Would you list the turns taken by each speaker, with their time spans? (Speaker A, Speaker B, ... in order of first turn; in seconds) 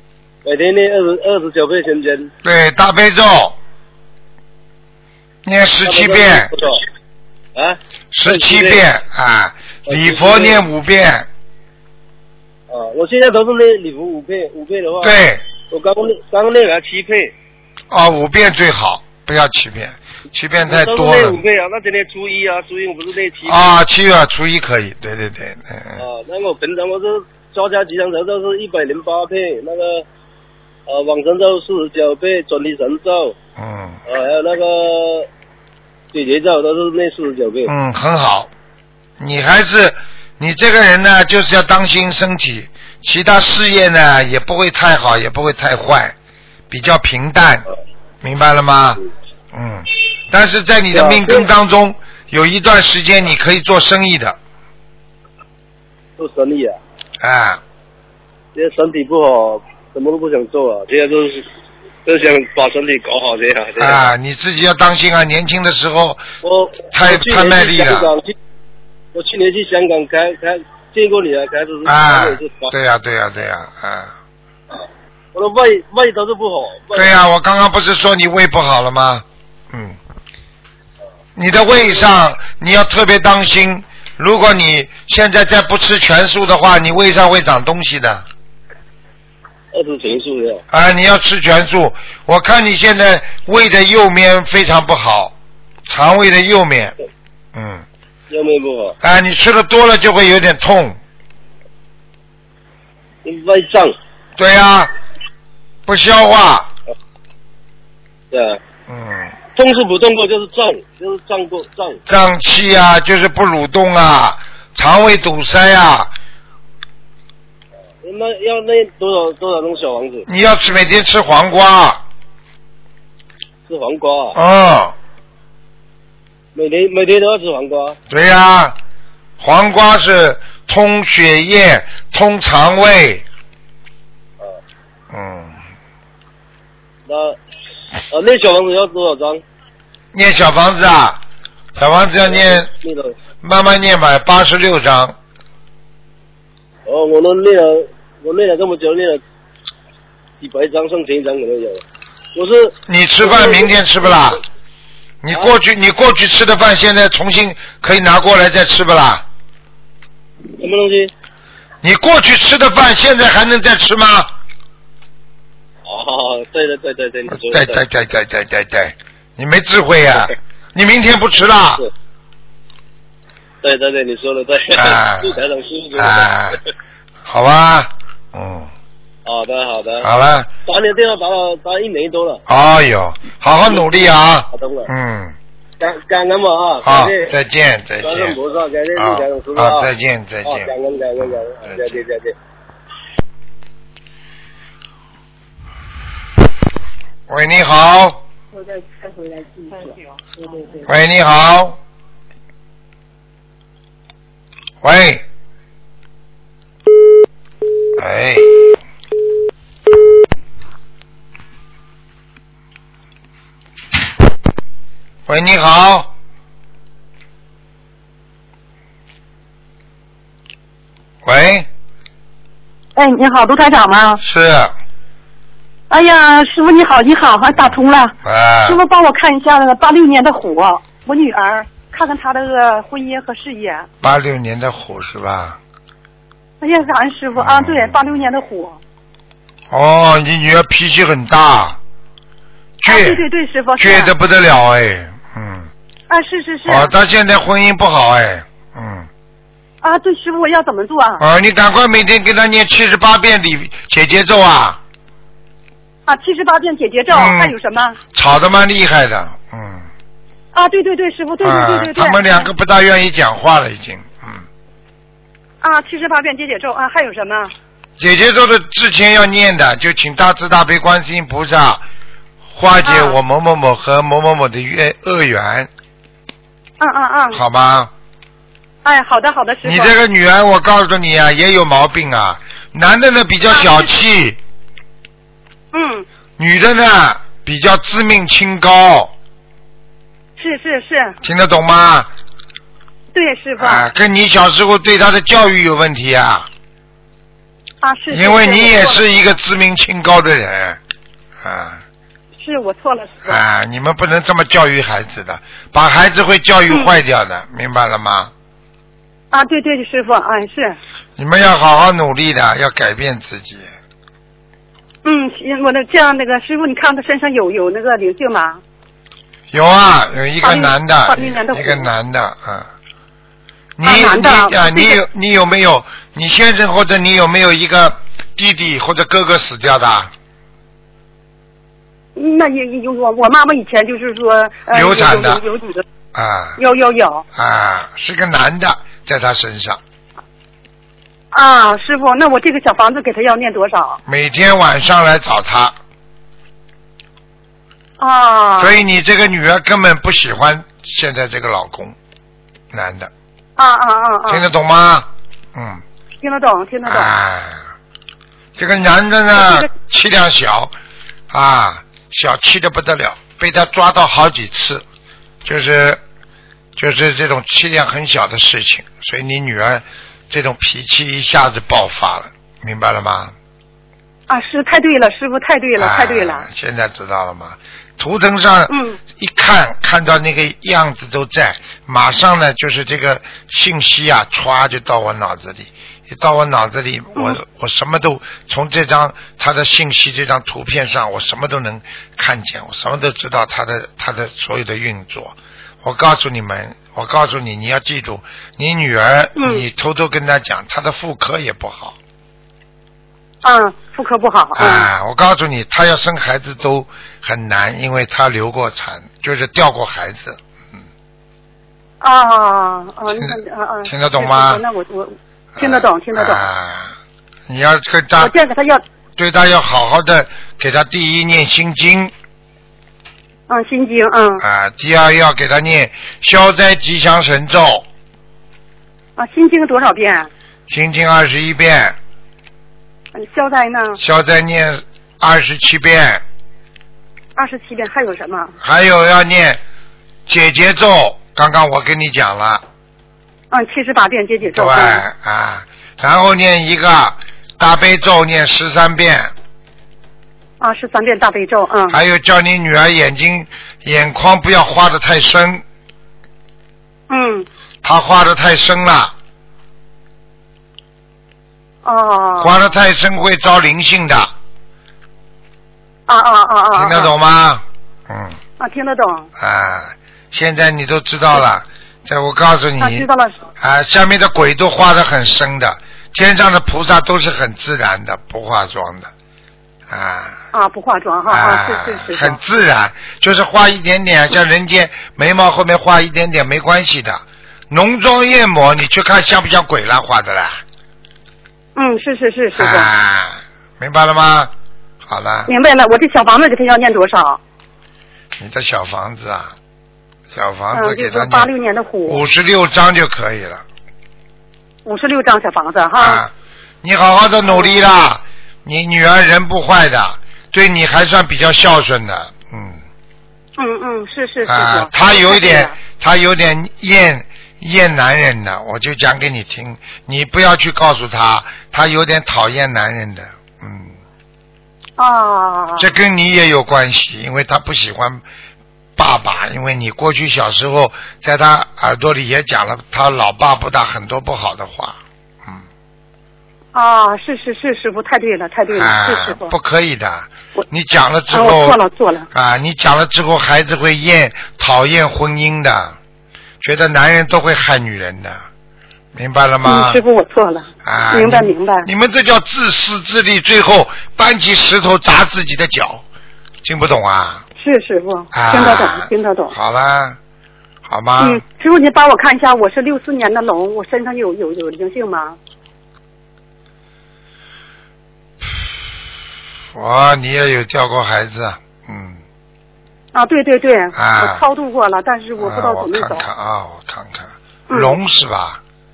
Speaker A: 0.4-2.3, 5.8-6.8, 7.5-8.8, 9.9-10.6, 12.7-15.2, 15.7-17.3, 20.6-23.7, 26.0-30.1, 30.9-33.3, 34.0-35.3, 36.1-37.7, 50.9-51.5, 56.2-56.8, 58.5-61.5, 62.0-64.1, 66.4-68.3, 69.1-72.7, 75.3-77.1, 89.7-90.6, 98.3-99.0, 103.2-103.9, 108.3-108.6, 109.5-112.0, 118.0-120.3, 123.7-124.4, 126.5-128.0, 137.1-137.4, 138.1-139.4, 142.2-143.2, 146.8-149.2, 150.4-151.8, 152.3-153.7, 160.6-161.1, 165.8-167.8, 173.6-176.3, 179.2-180.1, 180.7-182.4, 183.7-183.9, 184.5-184.9, 185.8-187.3, 188.0-189.9, 190.4-192.3
Speaker B: 2.4-3.6, 5.4-6.5, 8.1-11.3, 15.0-15.4, 17.9-21.4, 23.4-26.0, 33.6-34.0, 37.6-38.5, 39.2-46.1, 46.7-47.6, 48.2-49.0, 49.5-54.4, 57.2-57.6, 63.8-66.2, 66.9-68.1, 71.8-74.1, 76.9-80.0, 81.3-88.2, 90.7-95.3, 95.9-96.9, 97.5-97.8, 99.0-101.0, 104.4-104.9, 105.8-106.7, 108.9-109.3, 112.1-116.1, 120.3-122.0, 124.3-124.9, 128.1-128.8, 129.4-133.2, 135.1-135.6, 140.1-141.2, 141.8-142.7, 143.4-145.2, 152.9-154.4, 155.2-159.2, 161.8-164.3, 167.3-171.8, 174.7-175.4, 175.9-176.6, 177.2-178.7, 180.0-180.5, 182.5-185.3, 186.8-188.4, 188.9-192.0, 197.3-198.2, 200.8-201.8, 204.8-205.2, 207.9-208.8, 215.3-216.1, 221.2-221.7, 224.2-224.7, 228.2-228.8, 234.0-235.6, 237.4-238.0, 239.7-241.8, 242.8-243.2, 243.8-245.7, 246.7-249.1, 251.2-254.8, 257.1-257.6, 258.1-259.9, 261.4-264.4, 268.0-271.8, 272.5-275.7, 277.3-277.9, 279.6-284.4, 286.4-289.1, 291.2-292.1, 293.6-296.5, 298.1-300.8, 301.4-301.8, 303.2-308.3, 311.2-313.7, 319.5-322.7, 323.8-330.1, 334.7-335.4, 336.1-336.6, 337.3-339.8, 344.1-345.7, 348.6-351.9, 352.7-353.1, 354.3-355.8, 356.8-357.7, 358.6-360.7, 361.3-364.8, 365.4-366.0, 366.8-373.3, 375.8-401.9, 404.5-410.4, 413.2-414.6, 415.6-416.9, 417.5-418.3, 419.2-422.1, 424.4-427.8, 430.7-431.9, 434.0-436.2, 438.6-439.6, 440.3-442.6, 444.4-449.3, 451.9-455.6, 457.8-459.1, 462.4-464.3, 466.7-468.4, 469.4-473.1, 473.6-479.1, 479.9-480.4, 481.3-490.6, 492.6-494.5, 495.0-495.5, 498.4-499.5, 500.3-501.5, 502.1-503.6, 506.0-506.3, 506.8-512.8, 514.5-523.9, 525.8-528.2, 529.0-535.6, 538.7-541.8, 542.3-546.0, 546.6-548.4, 549.1-550.0, 550.8-556.0, 556.6-557.4, 558.3-560.2, 560.9-561.4, 569.7-572.2, 574.0-574.4, 575.4-578.6
Speaker C: 198.5-200.8, 222.9-224.2, 225.9-233.9, 236.6-238.8, 242.8-244.1, 246.1-246.9, 249.8-251.2, 256.1-258.0, 260.5-262.5, 265.6-267.5, 272.8-273.2, 276.8-277.4, 278.8-279.9, 283.5-283.9, 285.7-286.1, 290.4-291.2, 293.1-293.9, 297.8-299.1, 302.4-303.4, 309.3-310.8, 315.0-318.6, 320.4-321.9, 323.8-325.0, 332.1-335.8, 336.6-337.2, 341.3-344.0, 348.0-348.8, 353.6-354.4, 356.2-357.1, 359.4-359.7, 374.3-376.4, 378.7-379.0, 399.4-399.6, 403.4-404.9, 412.0-416.5, 418.2-418.8, 423.5-424.4, 429.2-430.3, 433.1-434.0, 437.4-438.5, 443.5-445.0, 450.6-452.0, 457.1-457.5, 461.8-462.6, 466.1-467.1, 468.6-469.3, 472.8-473.3, 480.5-482.4, 491.7-492.9, 495.5-497.4, 500.7-502.2, 504.8-506.2, 507.4-507.8, 513.6-515.7, 525.0-525.9, 536.7-539.5, 541.3-542.3, 549.6-551.9, 557.6-559.5, 561.2-565.4, 573.1-576.2, 577.7-578.0